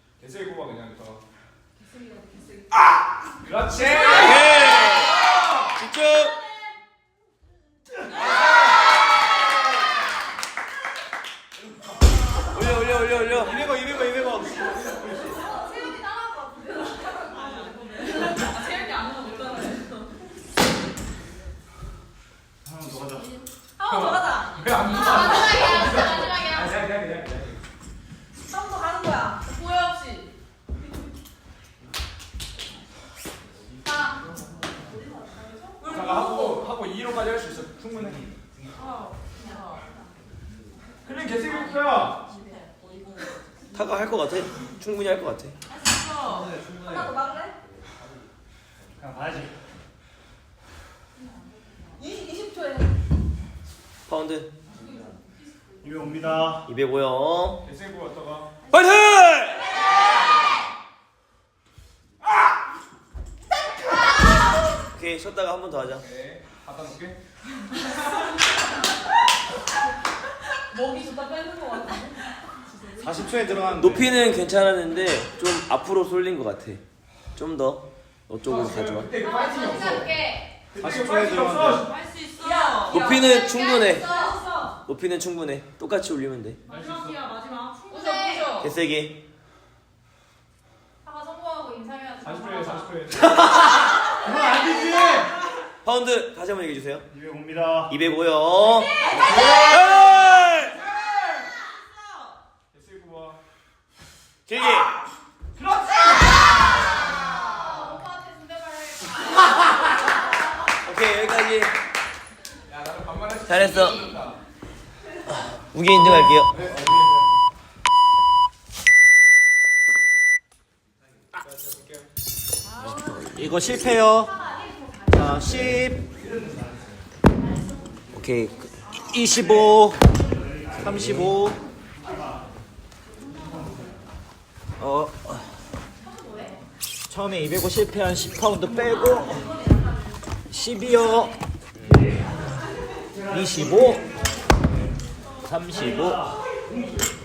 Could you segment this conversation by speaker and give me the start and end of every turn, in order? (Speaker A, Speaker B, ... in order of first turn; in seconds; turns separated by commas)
Speaker A: 0.2-1.2, Speaker A: 3.4-5.7, Speaker B: 4.1-6.4, Speaker B: 12.5-13.7, Speaker C: 13.5-14.7, Speaker D: 15.3-19.8, Speaker E: 17.4-19.9, Speaker F: 22.6-23.3, Speaker E: 23.8-25.6, Speaker A: 23.8-27.6, Speaker D: 24.9-26.7, Speaker E: 28.5-29.6, Speaker D: 29.4-30.3, Speaker D: 33.9-34.2, Speaker D: 35.4-35.8, Speaker E: 35.8-36.6, Speaker A: 35.8-38.6, Speaker E: 38.8-39.7, Speaker A: 41.0-42.3, Speaker B: 43.7-45.6, Speaker E: 46.1-47.5, Speaker F: 49.0-49.5, Speaker E: 52.0-52.9, Speaker B: 54.1-54.5, Speaker F: 55.8-56.7, Speaker B: 56.7-57.6, Speaker A: 57.6-58.5, Speaker B: 58.7-59.7, Speaker B: 64.9-66.1, Speaker A: 66.0-67.2, Speaker E: 70.7-72.1, Speaker C: 73.0-74.0, Speaker B: 73.8-76.8, Speaker B: 77.3-79.1, Speaker A: 78.4-80.1, Speaker D: 79.2-80.5, Speaker A: 80.7-82.4, Speaker C: 80.8-81.9, Speaker E: 81.9-84.8, Speaker D: 82.4-84.4, Speaker B: 82.9-84.2, Speaker B: 84.8-86.6, Speaker A: 86.7-87.2, Speaker E: 86.7-88.7, Speaker D: 87.9-88.6, Speaker B: 88.6-89.2, Speaker D: 91.0-93.0, Speaker A: 92.2-93.4, Speaker F: 94.2-95.3, Speaker B: 95.8-97.1, Speaker F: 97.1-98.0, Speaker B: 97.9-100.5, Speaker D: 99.1-99.5, Speaker A: 100.0-101.2, Speaker A: 102.7-103.4, Speaker B: 104.5-105.0, Speaker A: 105.6-106.1, Speaker D: 107.2-109.5, Speaker B: 110.8-111.7, Speaker A: 112.7-114.4, Speaker B: 113.5-114.1, Speaker B: 115.7-116.6, Speaker A: 116.0-117.1, Speaker A: 121.4-122.1, Speaker B: 122.9-123.2, Speaker C: 123.3-124.4, Speaker D: 124.4-125.5, Speaker C: 125.1-126.1, Speaker F: 126.2-126.7, Speaker B: 128.1-128.7, Speaker C: 129.1-130.1, Speaker C: 130.7-131.6, Speaker C: 134.8-135.3, Speaker D: 136.2-136.6, Speaker C: 137.1-139.5, Speaker C: 140.5-141.3, Speaker C: 143.3-144.0, Speaker C: 145.4-146.3